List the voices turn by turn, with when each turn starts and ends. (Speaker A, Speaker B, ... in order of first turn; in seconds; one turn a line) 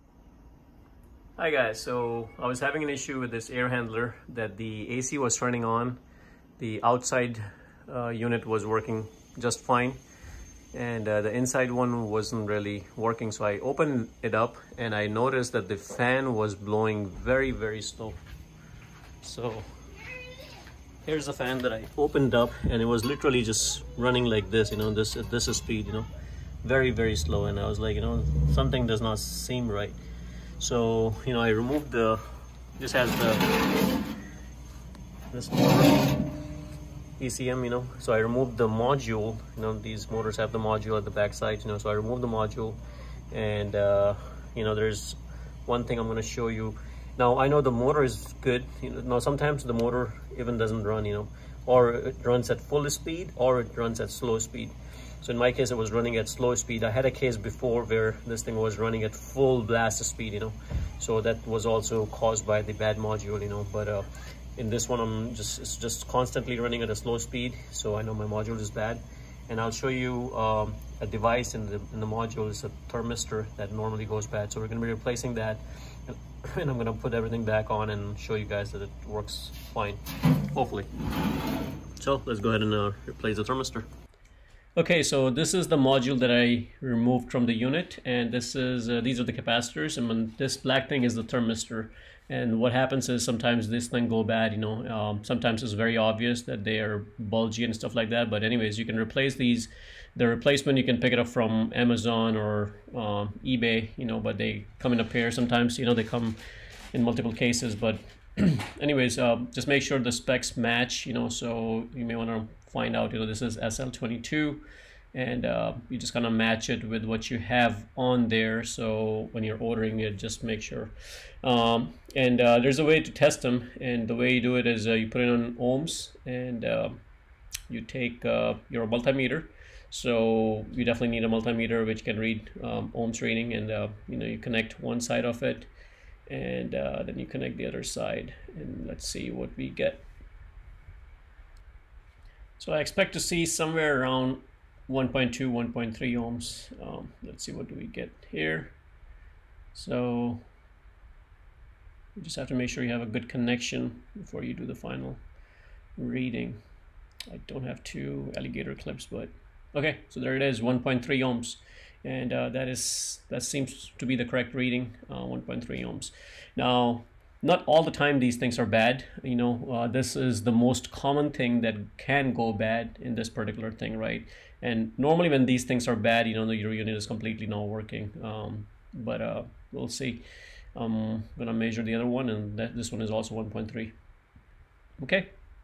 Speaker A: 1.4-6.0
Speaker A: 6.6-10.0
Speaker A: 10.7-18.2
Speaker A: 19.2-19.7
Speaker A: 21.0-26.1
Speaker A: 26.6-30.0
Speaker A: 30.6-32.2
Speaker A: 32.8-33.5
Speaker A: 35.3-36.2
Speaker A: 37.2-42.8
Speaker A: 43.3-80.9
Speaker A: 82.0-83.9
Speaker A: 84.8-106.4
Speaker A: 106.9-127.0
Speaker A: 127.7-135.7
Speaker A: 136.3-140.1
Speaker A: 142.6-148.8
Speaker A: 149.7-150.5
Speaker A: 152.2-155.2
Speaker A: 156.0-156.6
Speaker A: 157.3-180.2
Speaker A: 180.8-183.9
Speaker A: 185.0-185.3